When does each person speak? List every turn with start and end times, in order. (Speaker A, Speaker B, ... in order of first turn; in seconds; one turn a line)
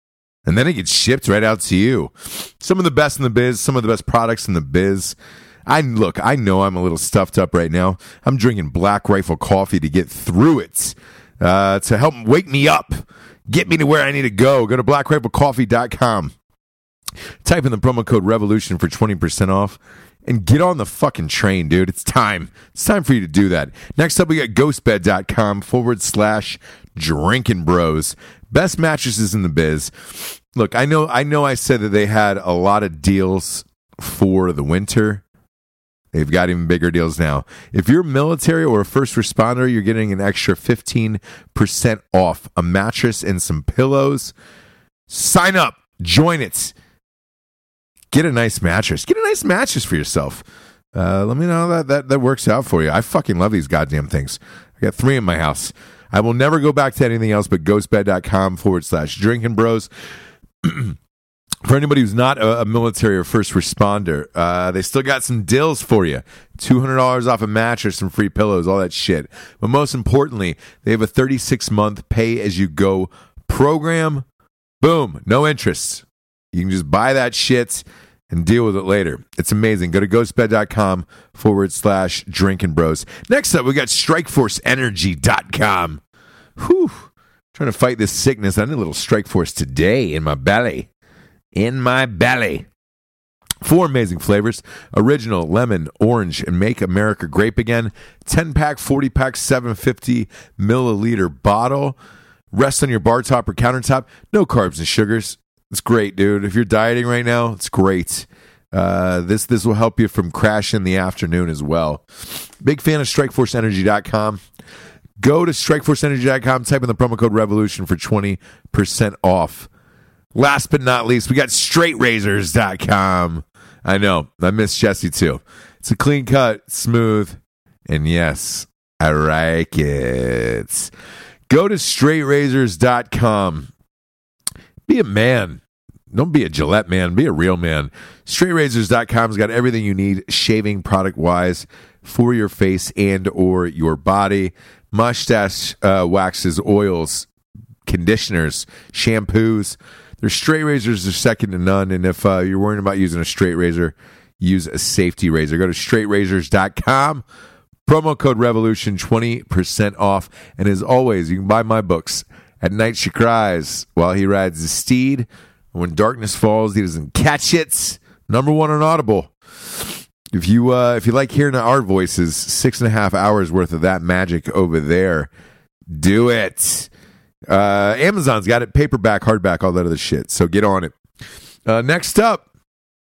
Speaker A: 0.5-16.3
Speaker A: 17.4-35.2
Speaker A: 36.1-44.3
Speaker A: 45.1-46.7
Speaker A: 48.1-50.4
Speaker A: 50.9-59.9
Speaker A: 60.6-61.0
Speaker A: 61.6-74.2
Speaker A: 74.8-86.0
Speaker A: 86.6-90.9
Speaker A: 91.5-92.7
Speaker A: 93.6-101.9
Speaker A: 102.5-114.4
Speaker A: 115.2-119.7
Speaker A: 120.3-130.9
Speaker A: 131.5-133.7
Speaker A: 134.9-135.6
Speaker A: 136.1-147.3
Speaker A: 147.8-157.2
Speaker A: 157.8-175.3
Speaker A: 175.9-176.9
Speaker A: 177.5-180.9
Speaker A: 181.7-182.4